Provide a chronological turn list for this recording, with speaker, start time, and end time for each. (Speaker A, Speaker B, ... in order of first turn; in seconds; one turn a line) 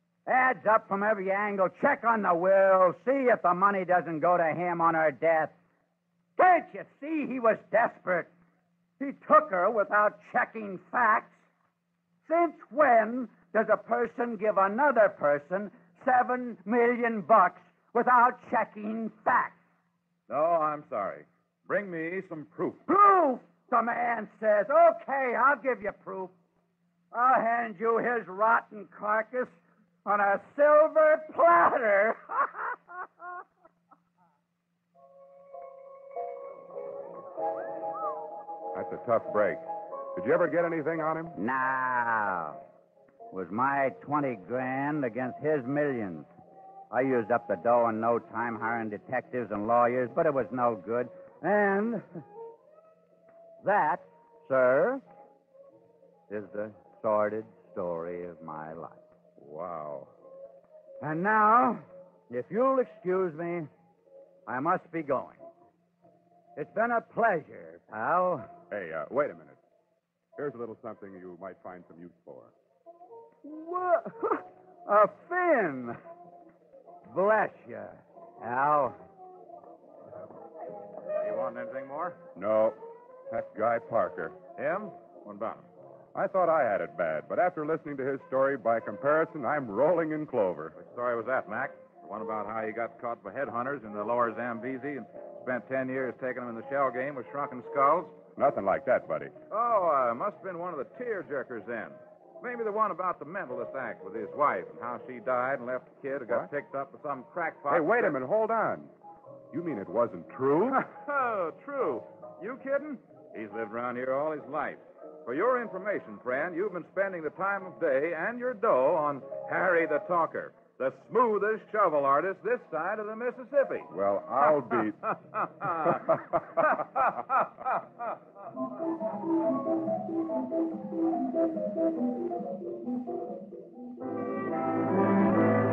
Speaker A: 0.3-5.5
Speaker A: 6.4-8.3
Speaker A: 9.0-11.4
Speaker A: 12.2-19.6
Speaker B: 20.3-22.8
Speaker A: 22.9-26.3
Speaker A: 27.1-32.7
Speaker C: 38.7-39.6
Speaker C: 40.1-41.4
Speaker A: 41.4-42.6
Speaker A: 43.3-46.3
Speaker A: 46.9-52.0
Speaker A: 53.6-55.0
Speaker A: 56.3-59.0
Speaker C: 59.4-60.1
Speaker A: 61.0-63.7
Speaker A: 64.5-65.4
Speaker A: 66.6-68.5
Speaker C: 68.7-69.6
Speaker C: 70.4-72.5
Speaker A: 73.4-76.0
Speaker A: 77.1-79.0
Speaker B: 81.2-82.2
Speaker C: 82.4-82.8
Speaker C: 83.3-84.3
Speaker B: 84.6-85.7
Speaker C: 86.2-90.8
Speaker B: 90.8-98.2
Speaker C: 98.4-99.3
Speaker B: 99.5-108.2
Speaker C: 107.7-108.9
Speaker C: 109.5-110.8
Speaker B: 110.7-123.9
Speaker C: 123.9-125.1
Speaker B: 125.6-126.0